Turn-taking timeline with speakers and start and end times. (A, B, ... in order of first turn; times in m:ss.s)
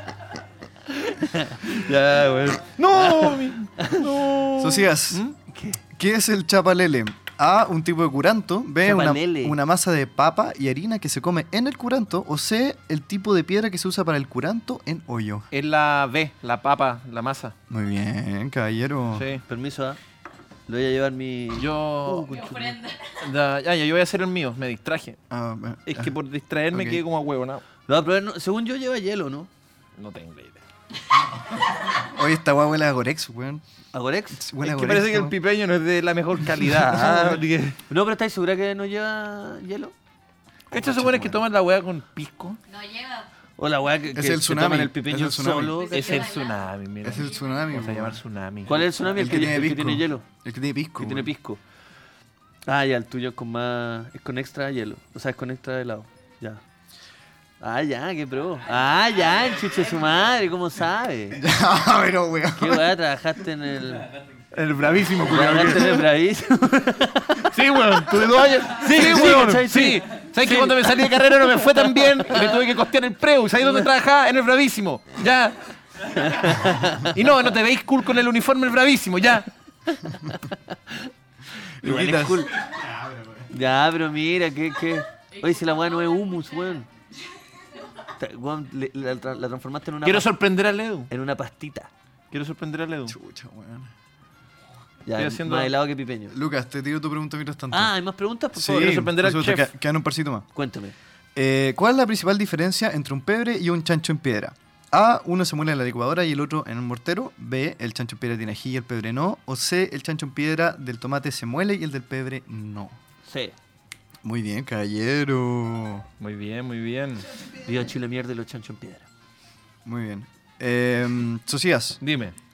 0:01.2-0:01.7 A
0:01.6-0:05.4 B
0:03.0-0:04.1 A
0:04.6-0:05.2 C
0:05.5-0:05.8 A
0:05.9-0:15.5 C
0:08.8-0:09.6 A
0:15.5-0:17.5 B
0:17.7-0:19.3 C
0:19.1-0:19.4 B
0:19.5-0:20.0 A
0:20.7-0:22.8 A
0:21.6-0:22.5 B
0:22.3-0:23.2 D
0:23.2-0:25.2 B
0:25.3-0:26.2 C
0:25.9-0:27.6 B
0:26.7-0:27.0 C
0:27.9-0:29.5 A
0:30.0-0:30.6 B
0:32.0-0:33.6 C
0:33.9-0:34.4 A
0:34.4-0:35.4 C
0:34.6-0:37.8 B
0:36.6-0:37.3 C
0:37.9-0:39.9 A
0:40.7-0:41.4 C
0:40.7-0:42.6 B
0:42.7-0:43.3 D
0:43.6-0:46.4 A
0:44.1-0:45.8 C
0:45.9-0:47.4 D
0:45.9-0:48.9 B
0:47.0-0:48.2 C
0:48.7-0:50.2 A
0:49.0-0:51.3 C
0:51.0-0:51.6 A
0:52.7-0:56.6 A
0:57.6-1:01.4 A
1:01.4-1:02.9 C
1:02.6-1:04.1 A
1:04.5-1:06.1 B
1:05.2-1:07.5 A
1:07.4-1:15.6 B
1:08.7-1:10.9 A
1:11.6-1:12.6 A
1:16.1-1:17.2 A
1:16.1-1:19.5 B
1:19.9-1:21.1 A
1:21.8-1:22.6 A
1:21.8-1:22.4 B
1:21.9-1:22.2 C
1:23.5-1:26.9 A
1:28.2-1:30.3 A
1:30.0-1:31.1 B
1:31.1-1:31.9 A
1:32.3-1:33.2 B
1:33.1-1:33.9 C
1:35.0-1:36.4 A
1:35.2-1:35.7 B
1:36.3-1:37.9 C
1:37.7-1:39.0 A
1:38.6-1:40.4 C
1:38.6-1:39.7 B
1:40.5-1:41.0 A
1:41.4-1:53.0 C
1:53.2-1:53.6 A
1:54.2-1:56.1 C
1:56.2-1:57.3 B
1:57.6-1:59.1 A
1:59.8-2:02.0 C
2:02.0-2:02.4 B